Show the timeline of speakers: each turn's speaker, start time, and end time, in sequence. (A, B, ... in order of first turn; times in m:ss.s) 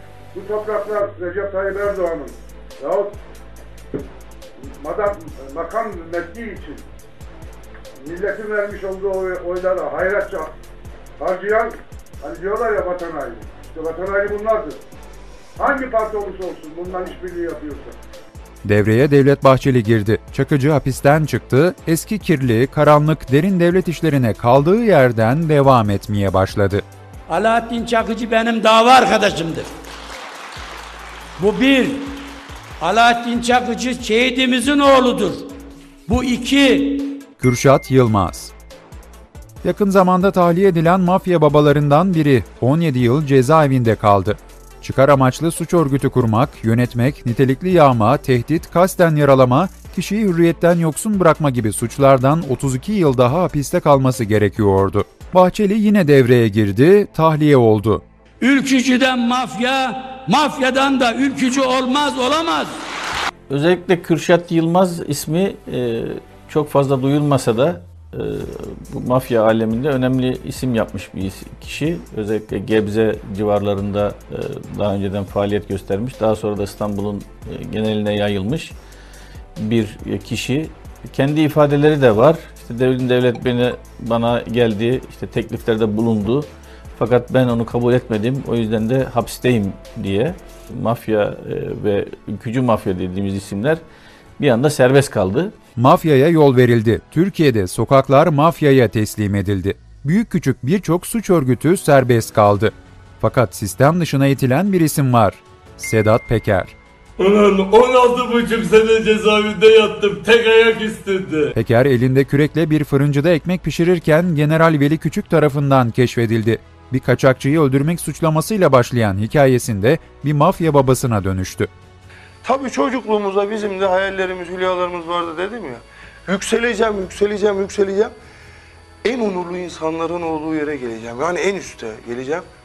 0:00.3-0:03.2 A
0:04.8-0:06.8 A
0:08.0-0:10.5 A
0:11.2-0:14.8 A
0:15.6-0:18.0 A
0:18.6-0:26.8 B
0:27.3-0:29.7 C
0:31.4-0:32.2 C
0:32.8-0:35.5 C
0:36.1-0:37.2 C
0:37.4-0:38.5 B
0:39.6-0:58.0 B
0:58.4-1:02.7 C
1:03.5-1:18.8 D
1:19.6-1:33.8 D
1:34.4-1:35.5 D
1:35.8-1:46.8 B
1:47.2-1:51.5 E
1:51.5-2:01.7 B
2:02.4-2:08.1 F
2:09.0-2:12.5 F